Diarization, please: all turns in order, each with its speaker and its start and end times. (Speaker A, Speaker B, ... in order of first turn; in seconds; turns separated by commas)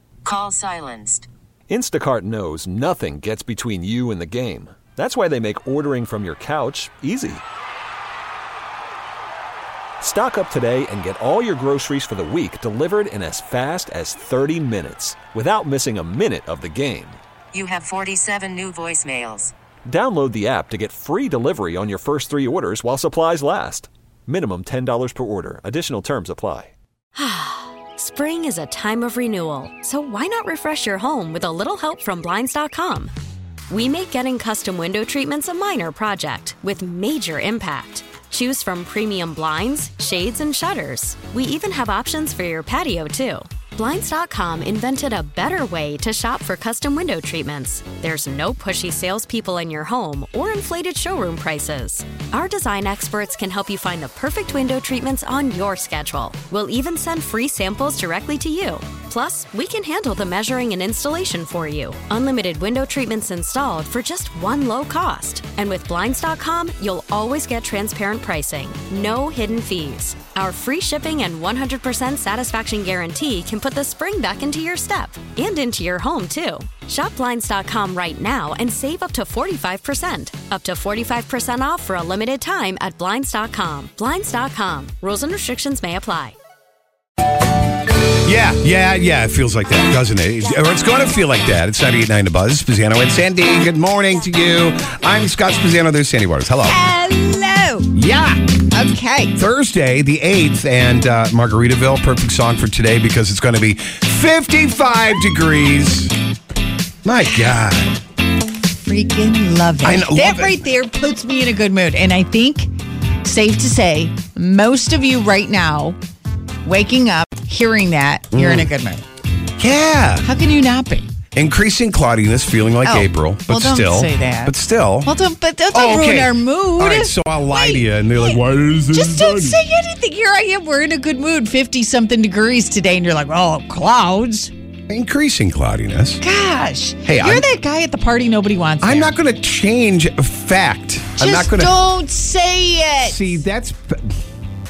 Speaker A: 0.2-1.3, Speaker B: 1.7-7.4, Speaker B: 10.0-17.2, Speaker A: 17.5-19.5, Speaker B: 19.9-26.7, Speaker C: 27.2-33.1, Speaker C: 33.7-86.3, Speaker D: 88.2-96.8, Speaker E: 96.7-97.9, Speaker D: 97.9-98.4, Speaker E: 98.7-99.3, Speaker D: 99.4-106.1, Speaker D: 107.0-108.0, Speaker E: 108.8-112.7, Speaker D: 109.8-110.6, Speaker E: 113.2-116.0, Speaker E: 116.7-119.0, Speaker D: 118.3-118.7, Speaker D: 119.6-120.3, Speaker E: 120.2-121.1, Speaker D: 121.3-125.1, Speaker E: 122.8-128.4, Speaker D: 125.7-129.6, Speaker E: 128.9-134.5, Speaker D: 134.9-136.2, Speaker E: 136.2-139.1, Speaker D: 137.1-137.5, Speaker D: 138.8-141.7, Speaker E: 141.2-143.2, Speaker D: 143.0-144.2